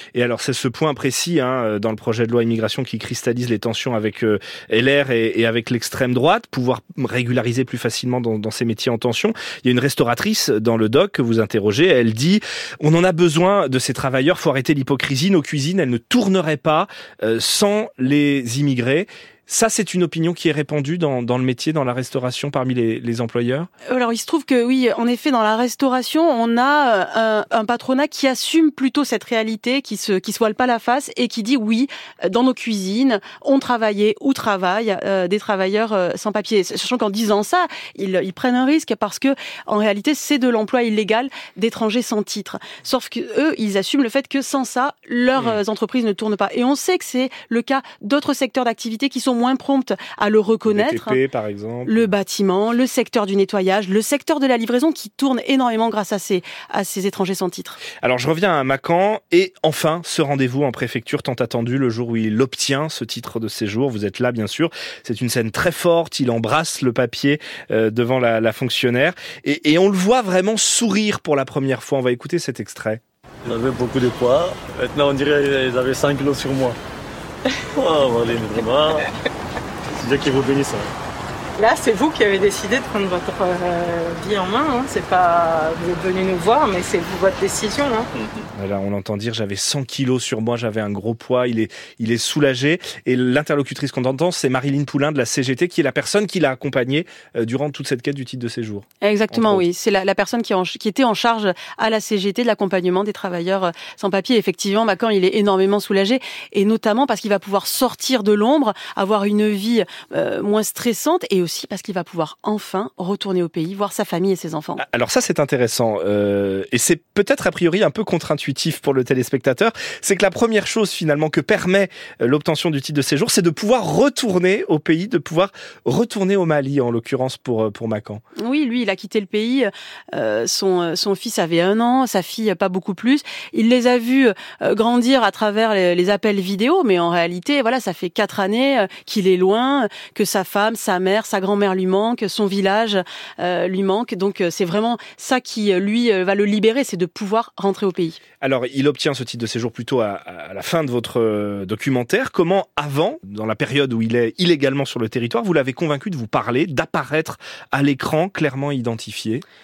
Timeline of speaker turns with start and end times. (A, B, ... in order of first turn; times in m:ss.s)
0:00.1-0:23.7 A
0:23.9-0:51.2 B
0:50.7-0:52.1 A
0:51.8-0:57.8 B
0:58.0-1:13.0 A
1:13.4-1:16.8 C
1:17.7-1:19.0 C
1:20.0-1:20.9 C
1:21.6-1:28.4 D
1:28.5-1:39.6 A
1:39.0-1:54.8 B
1:54.8-2:08.2 A
2:08.4-2:28.2 B
2:28.4-2:39.4 A